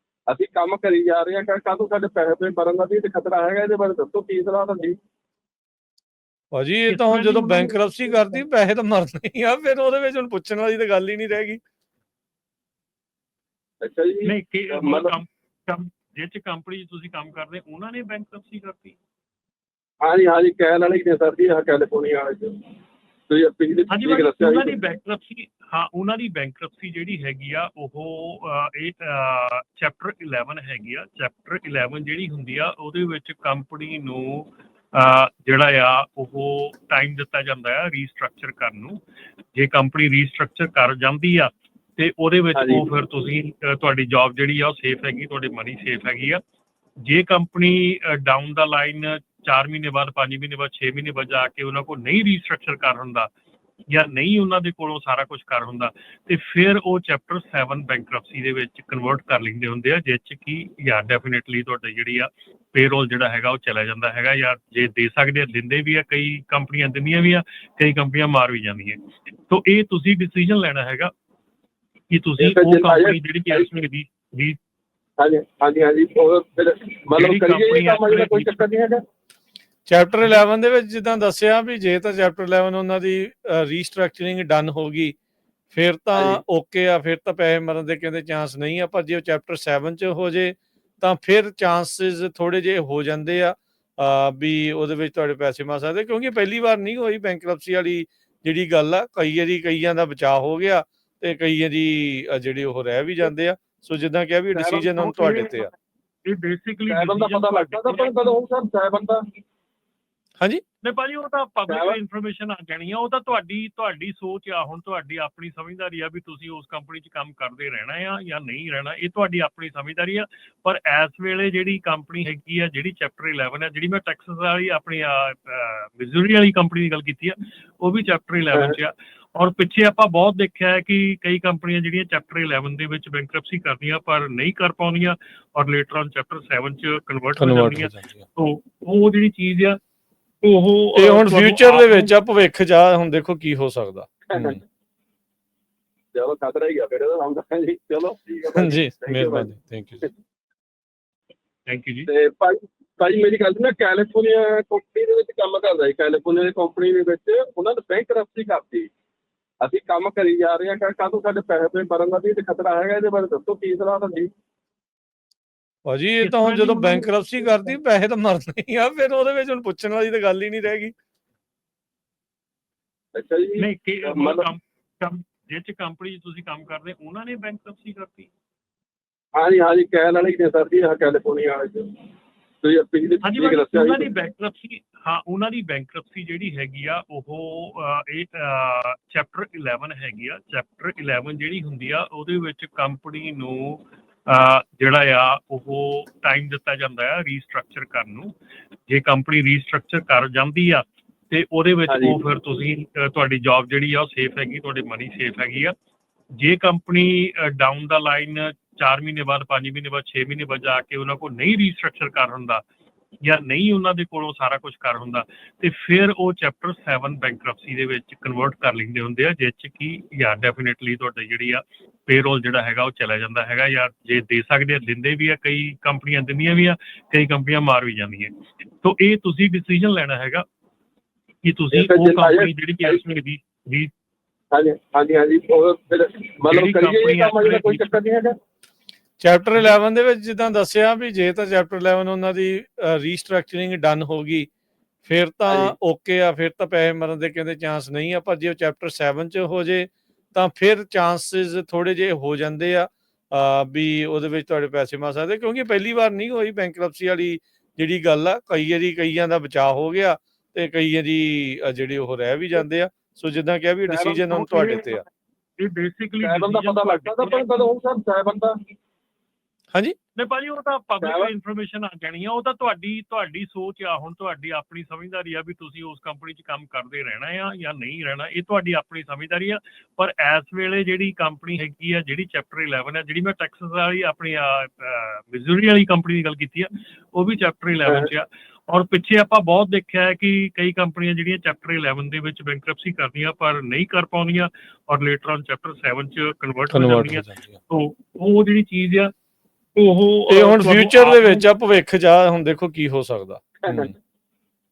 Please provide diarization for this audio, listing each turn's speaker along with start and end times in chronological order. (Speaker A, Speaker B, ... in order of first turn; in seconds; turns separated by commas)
Speaker A: 0.3-5.0, Speaker B: 6.5-11.6, Speaker C: 6.9-8.4, Speaker A: 13.8-15.2, Speaker C: 14.2-19.0, Speaker A: 20.0-22.6, Speaker A: 23.3-24.8, Speaker C: 23.9-39.0, Speaker C: 39.5-46.4, Speaker A: 42.5-42.9, Speaker C: 47.0-53.3, Speaker C: 53.9-69.0, Speaker C: 69.5-71.1, Speaker C: 72.1-74.6, Speaker A: 72.4-73.7, Speaker A: 75.2-79.0, Speaker C: 77.1-78.6, Speaker B: 79.9-85.2, Speaker B: 85.7-105.7, Speaker A: 86.1-86.4, Speaker A: 104.6-104.9, Speaker C: 105.0-105.7, Speaker C: 106.3-108.3, Speaker A: 106.9-109.2, Speaker C: 110.8-139.8, Speaker A: 111.7-112.0, Speaker B: 137.4-138.3, Speaker C: 140.4-142.1, Speaker B: 140.9-144.6, Speaker A: 144.3-144.6, Speaker A: 146.1-149.5, Speaker B: 148.5-150.1, Speaker C: 151.7-152.1, Speaker A: 152.1-158.9, Speaker A: 159.6-164.3, Speaker B: 165.9-170.9, Speaker C: 166.2-167.2, Speaker A: 173.2-174.5, Speaker C: 173.6-178.3, Speaker A: 179.3-181.9, Speaker A: 182.6-184.1, Speaker C: 183.2-198.3, Speaker C: 198.9-205.7, Speaker A: 201.9-202.2, Speaker C: 206.4-212.6, Speaker C: 213.2-230.4, Speaker C: 231.4-233.9, Speaker A: 231.7-233.0, Speaker A: 234.5-238.4, Speaker C: 236.5-238.0, Speaker B: 239.2-244.5, Speaker B: 245.0-265.0, Speaker A: 245.5-245.8, Speaker A: 263.9-264.2, Speaker C: 264.3-265.1, Speaker C: 265.6-267.6, Speaker A: 266.2-268.6, Speaker C: 270.2-299.1, Speaker A: 271.0-271.3, Speaker A: 287.9-288.1, Speaker B: 296.7-297.6, Speaker C: 299.8-301.4, Speaker B: 300.3-303.9, Speaker A: 303.6-303.9